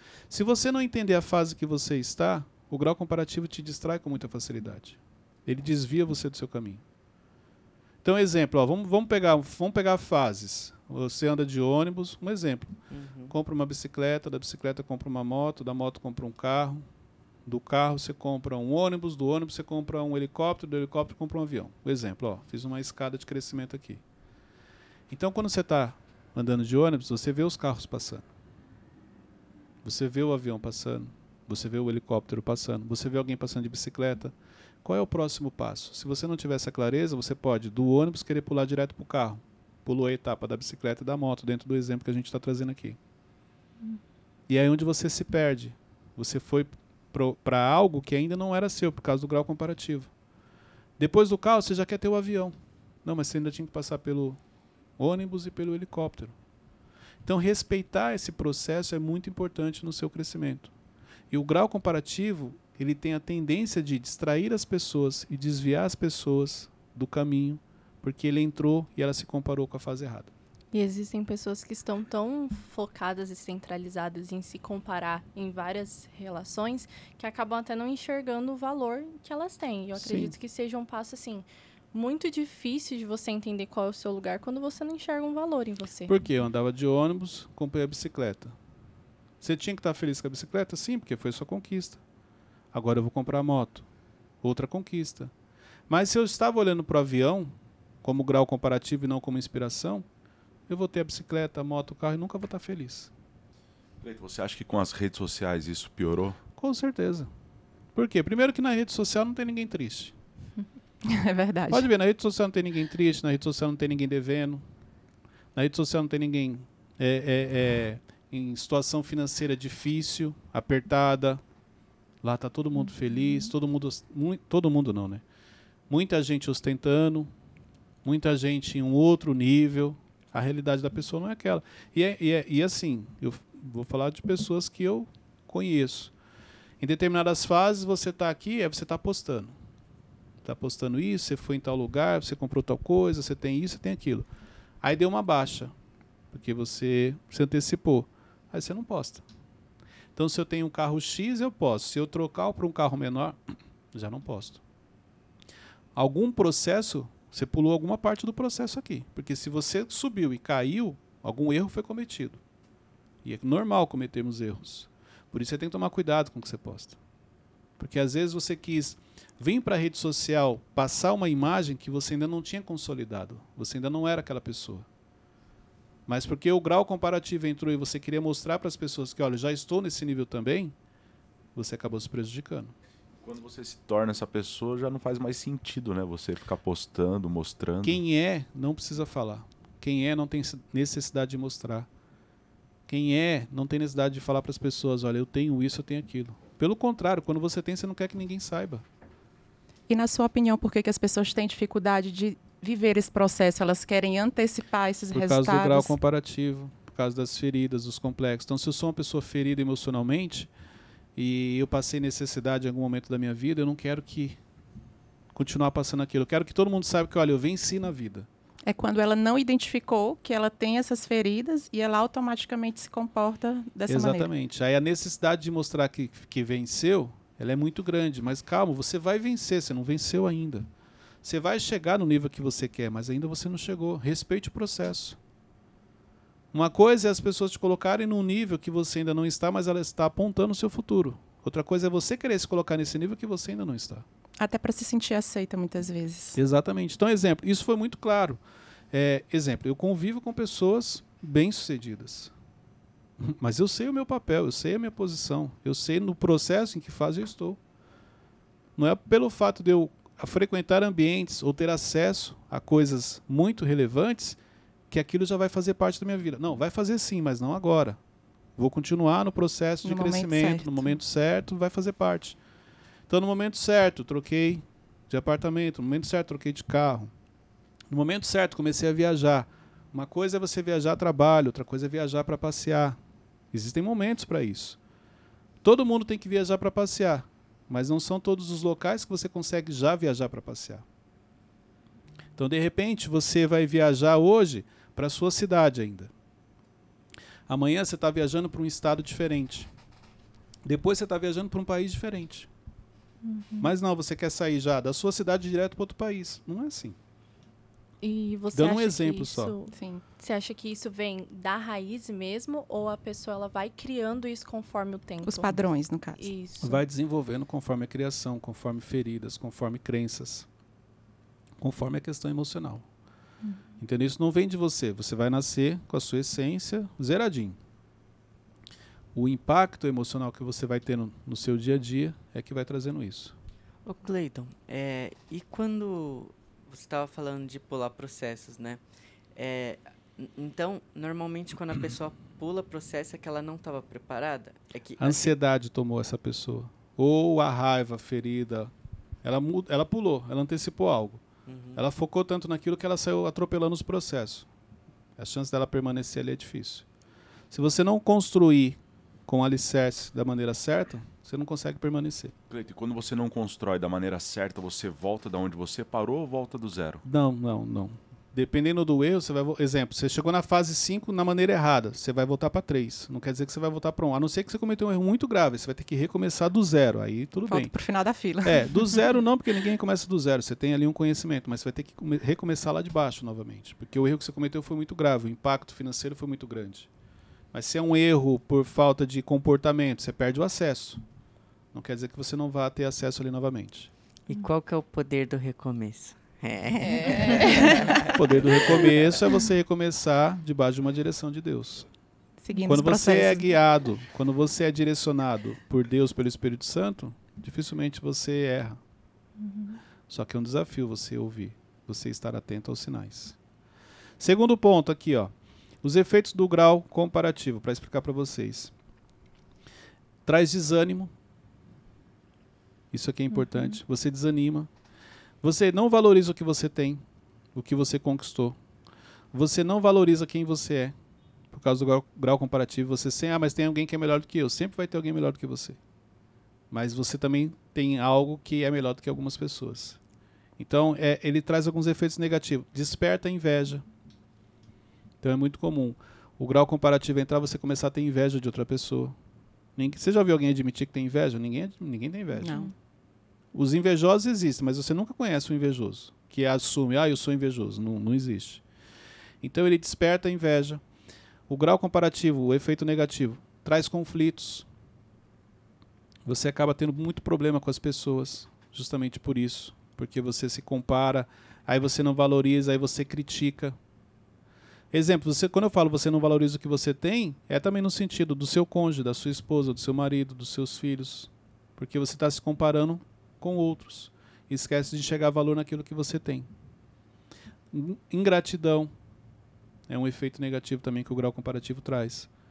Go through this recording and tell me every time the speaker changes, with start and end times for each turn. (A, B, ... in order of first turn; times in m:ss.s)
0:00.3-0:06.8 A
0:08.0-0:12.7 A
0:12.9-0:13.3 B
0:13.3-0:16.8 A
0:17.4-0:24.0 A
0:25.1-0:28.2 A
0:29.8-0:43.0 A
0:44.5-0:50.1 A
0:51.0-0:54.4 A
0:55.0-0:56.3 A
0:57.2-1:00.7 A
1:01.3-1:10.3 A
1:10.7-1:26.2 C
1:20.0-1:20.3 A
1:26.1-1:28.5 A
1:29.4-1:32.0 A
1:32.7-1:33.8 A
1:34.4-1:35.3 A
1:35.9-1:37.5 A
1:38.0-1:40.0 A
1:40.7-1:43.1 A
1:44.0-1:46.4 D
1:46.6-1:47.3 A
1:47.9-1:50.1 A
1:51.1-1:51.9 E
1:51.7-1:54.6 A
1:55.5-2:01.4 A
2:02.2-2:05.2 A
2:05.9-2:07.3 A
2:08.0-2:16.1 A
2:16.8-2:19.5 A
2:20.4-2:24.3 A
2:24.8-2:25.7 A
2:26.3-2:29.2 A
2:30.2-2:34.6 A
2:36.0-2:42.4 A
2:43.2-2:47.0 A
2:47.8-2:54.8 A
2:56.1-3:00.7 A
3:01.5-3:02.7 A
3:03.2-3:08.0 D
3:07.8-3:11.9 A
3:12.9-3:18.8 A
3:19.9-3:25.9 E
3:25.1-3:30.5 A
3:31.2-3:34.4 A
3:35.3-3:38.3 A
3:38.6-3:44.3 E
3:43.9-3:50.7 A
3:51.2-3:55.2 A
3:56.5-4:04.0 A
4:04.4-4:06.4 E
4:06.3-4:08.4 A
4:08.9-4:12.3 A
4:13.2-4:17.6 A
4:18.8-4:24.4 A
4:24.9-4:28.0 A
4:28.6-4:32.4 A
4:29.8-4:30.9 E
4:33.1-4:37.1 A
4:37.9-4:43.0 A
4:43.5-4:44.8 A
4:45.6-4:50.8 A
4:52.4-4:56.1 A
4:57.5-4:59.7 A
5:00.6-5:02.5 A
5:03.2-5:03.7 C
5:03.6-5:07.0 A
5:08.0-5:15.6 C
5:08.5-5:09.5 A
5:09.7-5:10.0 E
5:15.2-5:16.3 E
5:16.1-5:16.8 C
5:16.6-5:20.5 A
5:21.6-5:22.8 A
5:23.8-5:27.6 A
5:29.1-5:33.3 A
5:33.8-5:38.8 B
5:39.4-5:45.3 B
5:45.0-5:48.7 A
5:49.2-5:51.2 A
5:51.4-5:51.8 B
5:51.7-5:54.5 A
5:55.2-5:56.8 A
5:57.5-6:02.3 A
6:02.5-6:07.0 D
6:07.0-6:17.7 A
6:17.5-6:19.1 E
6:18.4-6:26.9 A
6:27.5-6:31.0 A
6:31.7-6:33.9 A
6:34.3-6:39.0 B
6:38.1-6:41.9 A
6:42.4-6:43.4 E
6:42.5-6:42.8 C
6:42.7-6:48.8 A
6:49.4-6:49.8 C
6:50.1-6:53.4 A
6:54.2-6:58.7 A
7:00.2-7:01.1 A
7:02.9-7:04.7 A
7:03.3-7:03.8 C
7:05.4-7:07.0 A
7:07.5-7:08.6 A
7:09.3-7:10.9 A
7:11.5-7:15.8 A
7:16.7-7:20.0 A
7:20.6-7:23.8 A
7:25.2-7:29.1 A
7:29.8-7:32.6 A
7:32.4-7:32.7 E
7:32.4-7:32.7 C
7:33.5-7:38.6 A
7:39.4-7:40.8 A
7:41.5-7:44.7 A
7:46.2-7:53.7 A
7:54.9-8:06.5 A
8:07.7-8:08.9 A
8:09.9-8:12.3 A